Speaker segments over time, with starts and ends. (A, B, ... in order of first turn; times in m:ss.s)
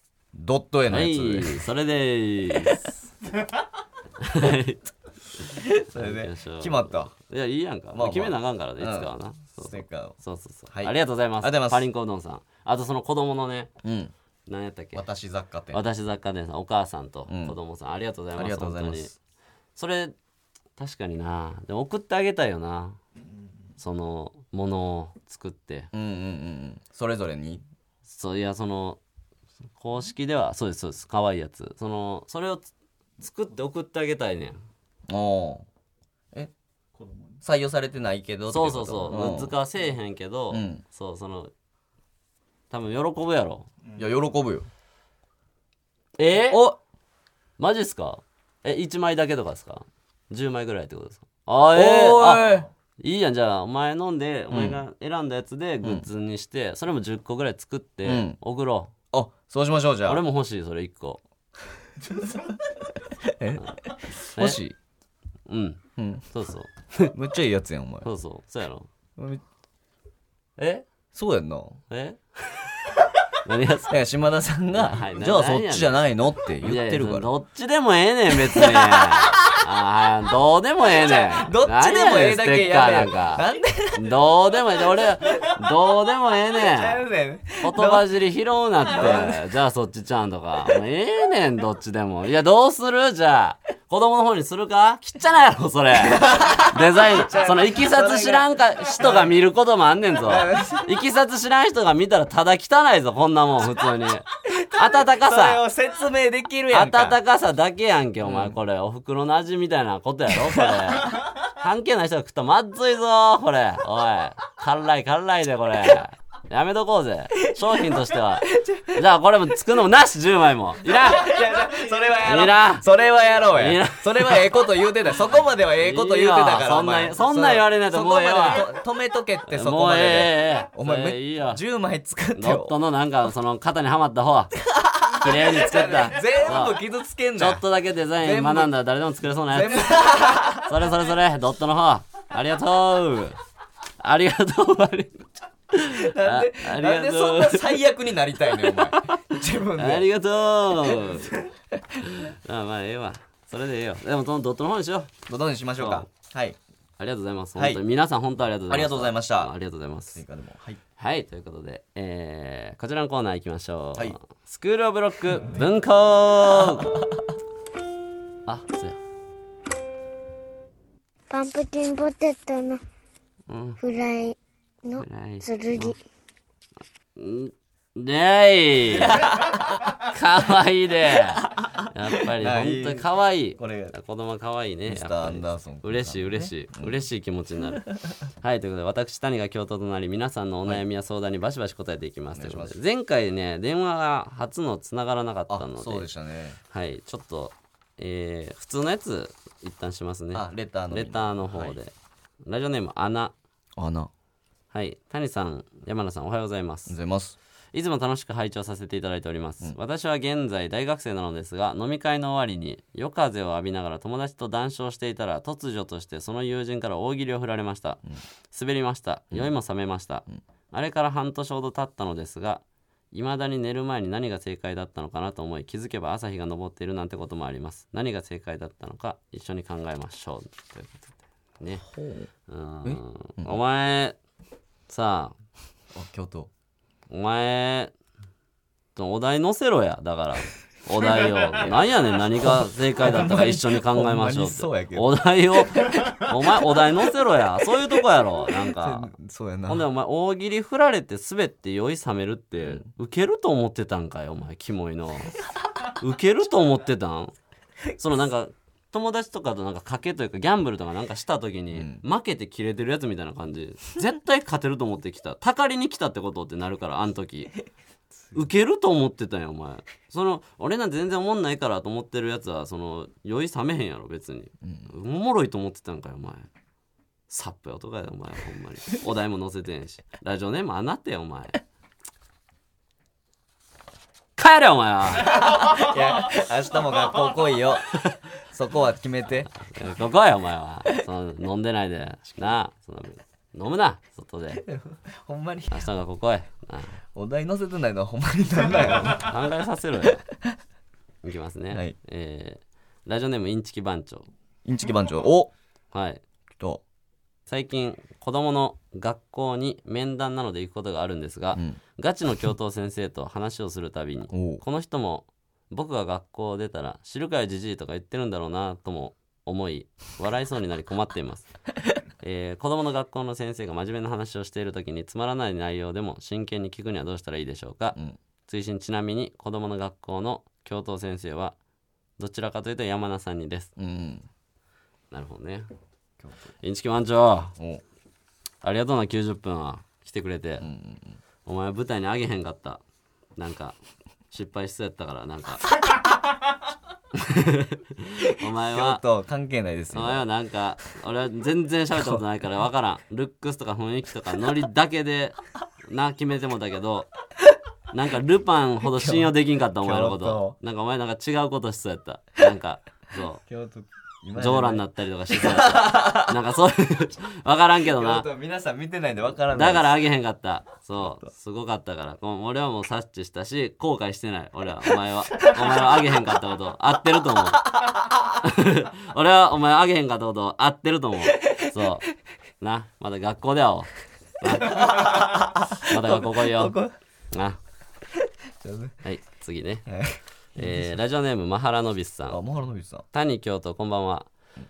0:00.3-0:01.6 A
0:00.9-0:02.9 B
0:04.2-0:13.7 B
0:05.4-0:07.1 A
0:07.9-0:10.2 A
0:10.7-0:11.9 A
0:13.8-0:14.1 A
0:14.4-0:15.0 B
0:14.9-0:15.8 A
0:15.7-0:19.1 B
0:17.3-0:17.6 A
0:18.3-0:19.2 A
0:19.8-0:20.1 B
0:20.8-0:23.0 B
0:23.8-0:25.9 B
0:25.9-0:27.6 A
0:28.0-0:29.0 B
0:29.8-0:34.6 B
0:35.1-0:35.6 A
0:37.3-0:39.6 A
0:38.5-0:41.5 B
0:40.5-0:40.8 A
0:42.7-0:43.7 B
0:43.9-0:44.7 A
0:46.2-0:46.6 B
0:46.5-0:46.8 A
0:47.6-0:58.9 B
0:51.7-0:52.7 A
0:54.5-0:54.8 A
0:55.8-0:56.1 A
0:58.0-0:58.4 A
0:59.1-1:00.2 A
1:00.1-1:01.2 B
1:02.0-1:04.8 A
1:04.3-1:04.6 B
1:05.4-1:07.1 B
1:06.0-1:06.3 A
1:07.1-1:08.1 A
1:08.0-1:08.9 B
1:09.2-1:09.4 A
1:10.6-1:10.8 B
1:11.1-1:11.8 A
1:11.9-1:12.8 B
1:13.3-1:14.0 B
1:13.9-1:17.3 A
1:14.7-1:16.0 B
1:16.6-1:27.0 B
1:18.4-1:19.6 A
1:20.9-1:24.2 A
1:24.8-1:25.6 A
1:26.5-1:28.0 A
1:27.6-1:45.6 B
1:28.8-1:29.4 A
1:36.0-1:39.3 A
1:40.2-1:41.0 A
1:44.4-1:47.2 A
1:46.7-2:01.5 B
1:48.2-1:48.6 A
1:50.4-1:50.8 A
1:58.5-1:59.0 A
2:00.8-2:12.8 A
2:02.2-2:02.9 B
2:03.5-2:04.5 B
2:05.8-2:08.7 B
2:09.5-2:11.6 B
2:12.3-2:14.6 B
2:14.7-2:17.6 A
2:15.1-2:16.8 B
2:17.4-2:23.4 B
2:18.2-2:18.7 A
2:19.5-2:20.7 A
2:24.0-2:27.8 B
2:25.9-2:30.1 A
2:28.4-2:31.5 B
2:30.8-2:32.0 A
2:32.0-2:35.2 B
2:35.3-2:36.6 A
2:35.8-2:36.1 B
2:37.0-2:40.2 B
2:37.6-2:37.8 A
2:38.7-2:39.5 A
2:40.1-2:40.8 A
2:41.0-2:47.0 B
2:48.4-2:49.0 B
2:51.3-2:52.8 C
2:53.5-2:53.8 B
2:53.8-2:56.0 C
2:55.0-2:56.0 B
2:57.2-2:59.3 B
2:58.9-3:00.0 A
3:00.0-3:16.1 B
3:02.3-3:04.0 A
3:04.8-3:07.0 A
3:07.8-3:08.2 A
3:12.3-3:12.8 A
3:15.5-3:16.6 A
3:16.7-3:21.9 B
3:20.3-3:21.8 A
3:22.4-3:23.3 B
3:23.8-3:24.1 A
3:24.7-3:27.0 B
3:26.9-3:27.4 A
3:27.7-3:51.8 B
3:51.8-3:52.3 A
3:52.5-3:54.2 B
3:52.8-3:53.6 A
3:54.9-3:55.4 B
3:55.9-3:56.5 A
3:57.1-3:57.9 B
3:59.0-4:09.1 B
4:02.4-4:06.3 A
4:08.5-4:09.9 A
4:09.7-4:17.3 B
4:17.9-4:27.5 B
4:21.7-4:22.0 A
4:28.3-4:36.5 B
4:34.6-4:34.9 A
4:37.3-4:41.6 B
4:44.4-4:45.6 B
4:45.2-4:49.5 A
4:49.5-4:54.6 B
4:54.6-4:55.9 A
4:55.7-4:57.0 B
4:57.1-4:59.3 A
4:59.1-5:00.2 B
5:00.0-5:00.6 A
5:01.2-5:04.3 B
5:01.7-5:02.0 A
5:04.6-5:05.5 A
5:05.9-5:06.2 B
5:07.5-5:21.5 B
5:11.5-5:11.8 A
5:14.3-5:14.6 A
5:22.2-5:31.6 B
5:32.2-5:33.7 B
5:33.8-5:34.3 A
5:35.1-5:35.7 B
5:36.2-5:36.5 A
5:36.6-5:37.6 B
5:37.6-5:37.8 A
5:38.6-5:40.7 B
5:40.6-5:41.2 A
5:41.4-5:42.8 B
5:43.4-5:43.8 B
5:44.3-5:45.7 B
5:47.1-5:49.0 B
5:48.6-5:50.2 A
5:49.9-5:55.4 B
5:55.9-5:57.1 B
5:57.9-6:03.4 B
5:58.8-6:00.6 A
6:03.4-6:06.4 A
6:04.4-6:08.3 B
6:07.9-6:10.0 A
6:09.5-6:17.8 B
6:11.0-6:11.3 A
6:17.7-6:18.2 A
6:18.3-6:22.1 B
6:21.4-6:21.7 A
6:22.6-6:26.8 B
6:24.4-6:26.9 A
6:27.3-6:27.6 B
6:28.5-6:29.0 A
6:29.0-6:29.9 B
6:29.8-6:31.0 A
6:30.6-6:32.4 B
6:32.3-6:33.0 A
6:33.1-6:34.3 B